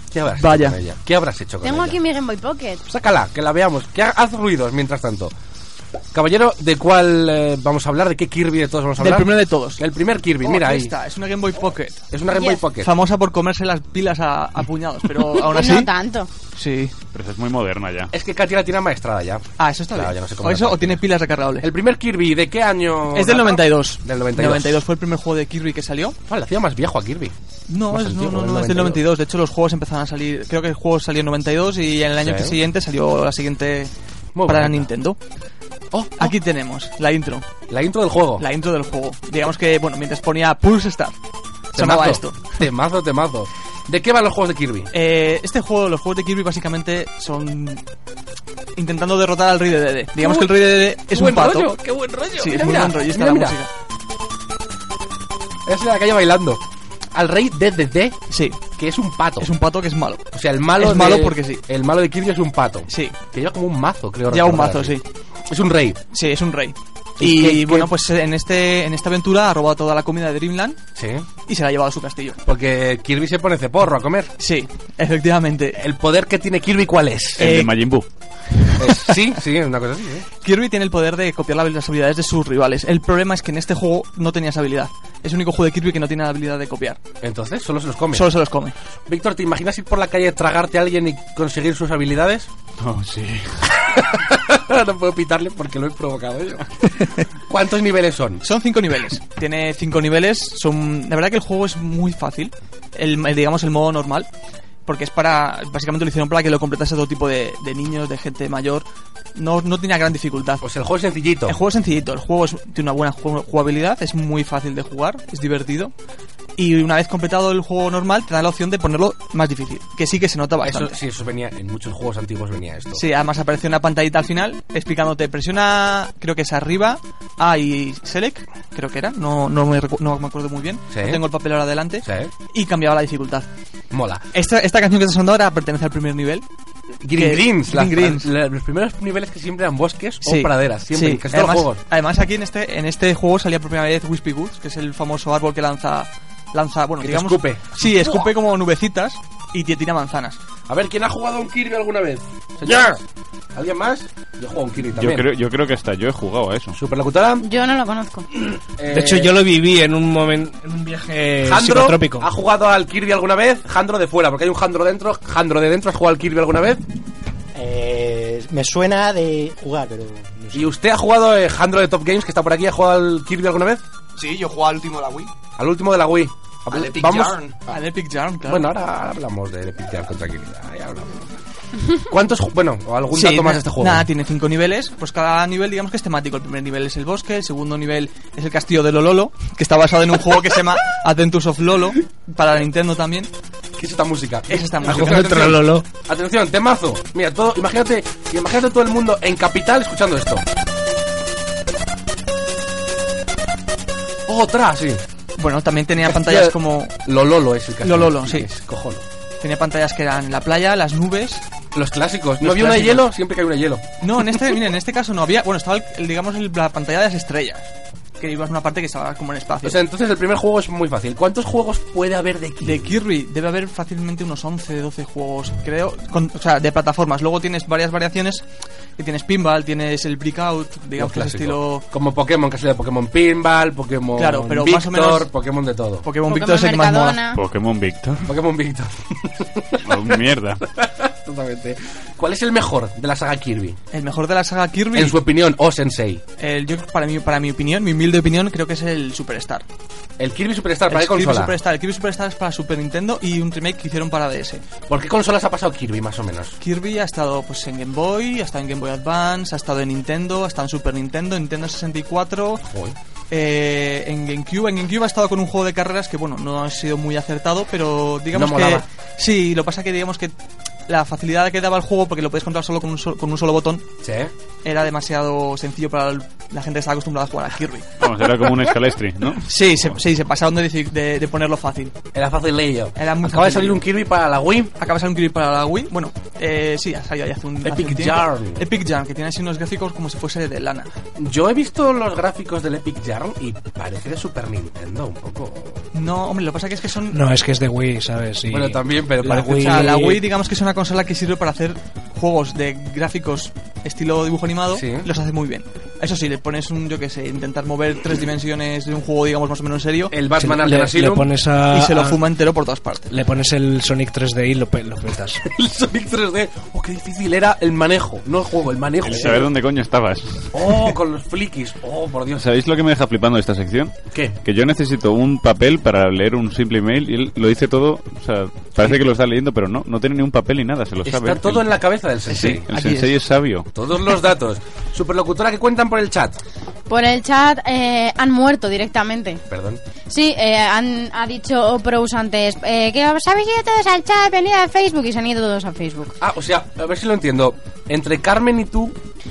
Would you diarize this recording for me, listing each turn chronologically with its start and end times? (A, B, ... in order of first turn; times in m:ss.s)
0:00.1-0:02.0 A
0:00.4-0:00.8 B
0:01.6-0:02.8 C
0:02.9-0:05.3 A
0:06.1-0:10.9 A
0:09.0-0:09.8 B
0:10.4-0:12.1 B
0:12.1-0:12.9 A
0:12.3-0:12.6 C
0:12.7-0:15.9 B
0:15.4-0:16.3 C
0:16.5-0:16.9 B
0:17.1-0:18.1 D
0:18.1-0:21.0 A
0:19.6-0:21.7 B
0:21.6-0:24.8 A
0:23.1-0:26.2 B
0:26.3-0:27.3 A
0:27.7-0:33.9 B
0:27.9-0:29.1 A
0:32.2-0:32.6 A
0:34.3-0:34.9 A
0:34.4-0:35.2 B
0:35.9-0:36.3 A
0:36.2-0:37.5 B
0:37.7-0:38.4 A
0:38.4-0:41.1 B
0:41.7-0:42.6 B
0:41.7-0:44.9 A
0:44.9-0:47.8 B
0:48.8-0:51.8 B
0:50.2-0:50.5 A
0:51.1-0:53.6 A
0:52.4-0:53.7 B
0:55.6-0:56.6 A
0:57.1-0:58.2 A
0:58.3-0:58.6 B
0:58.7-0:59.5 A
0:59.4-1:00.2 B
1:00.3-1:05.0 A
1:00.8-1:01.6 B
1:02.9-1:03.2 B
1:04.3-1:05.0 B
1:05.5-1:06.0 A
1:06.1-1:10.8 B
1:07.2-1:07.9 A
1:11.0-1:11.2 A
1:11.4-1:12.4 B
1:12.4-1:14.3 A
1:14.4-1:15.8 B
1:15.8-1:17.5 A
1:17.4-1:17.8 B
1:17.4-1:18.0 D
1:18.8-1:20.2 A
1:20.4-1:27.0 B
1:27.2-1:28.3 A
1:28.1-1:28.7 B
1:29.1-1:32.5 A
1:32.8-1:33.6 D
1:33.9-1:36.7 A
1:37.5-1:38.4 A
1:38.4-1:44.3 B
1:44.8-1:50.6 B
1:50.6-1:51.6 A
1:51.5-1:55.9 B
1:56.6-2:01.0 B
2:00.6-2:03.0 A
2:02.9-2:13.5 B
2:10.9-2:11.2 A
2:12.0-2:12.3 A
2:13.9-2:14.2 A
2:14.3-2:16.4 B
2:17.0-2:21.8 A
2:17.2-2:18.3 B
2:20.2-2:30.4 B
2:27.0-2:28.3 A
2:30.7-2:33.0 A
2:33.5-2:35.2 A
2:34.9-2:36.8 D
2:36.7-2:37.4 A
2:37.4-2:38.2 C
2:38.8-2:39.3 A
2:38.9-2:42.2 E
2:41.4-2:46.8 A
2:47.5-2:50.7 F
2:50.5-2:53.8 A
2:54.2-2:55.3 G
2:55.6-2:57.4 A
2:56.7-2:57.6 G
2:57.7-2:58.7 B
2:58.4-3:01.3 A
3:02.1-3:04.0 A
3:03.1-3:13.3 B
3:13.8-3:20.4 A
3:14.5-3:15.3 B
3:14.8-3:15.8 E
3:24.3-3:25.0 A
3:25.4-3:26.9 B
3:26.0-3:29.0 A
3:27.8-3:28.5 B
3:29.4-3:31.4 B
3:31.7-3:34.6 A
3:32.4-3:33.1 B
3:34.0-3:39.8 B
3:39.6-3:42.9 A
3:42.6-3:48.4 B
3:49.0-3:51.8 B
3:51.0-3:56.0 A
3:54.2-3:55.3 B
3:56.0-3:57.2 B
3:56.2-3:57.4 C
3:57.3-3:58.3 D
3:58.2-4:00.2 A
3:59.8-4:00.6 D
4:00.7-4:03.8 A
4:03.9-4:05.2 B
4:04.9-4:06.2 A
4:06.4-4:09.6 B
4:10.2-4:11.5 A
4:10.9-4:14.6 B
4:14.9-4:16.6 A
4:16.6-4:22.6 B
4:22.6-4:22.9 A
4:23.3-4:30.3 B
4:28.3-4:28.8 A
4:30.9-4:33.8 B
4:34.0-4:34.3 A
4:34.6-4:38.0 B
4:38.0-4:39.5 D
4:39.4-4:41.9 B
4:42.1-4:44.7 A
4:43.0-4:43.8 B
4:44.8-4:50.9 B
4:47.6-4:48.6 A
4:51.2-4:55.8 A
4:55.9-4:57.2 B
4:57.1-5:00.2 E
4:58.5-5:00.2 A
4:59.4-5:10.2 B
5:04.7-5:05.1 A
5:10.1-5:11.3 A
5:10.4-5:12.2 E
5:11.7-5:13.1 B
5:13.1-5:15.4 E
5:15.4-5:19.5 A
5:19.0-5:20.7 D
5:20.5-5:22.4 A
5:22.4-5:31.8 D
5:31.0-5:32.6 A
5:32.3-5:33.1 B
5:32.3-5:33.7 D
5:33.7-5:36.4 A
5:36.9-5:39.4 C
5:39.5-5:39.8 A
5:40.1-5:46.1 C
5:46.2-5:49.0 A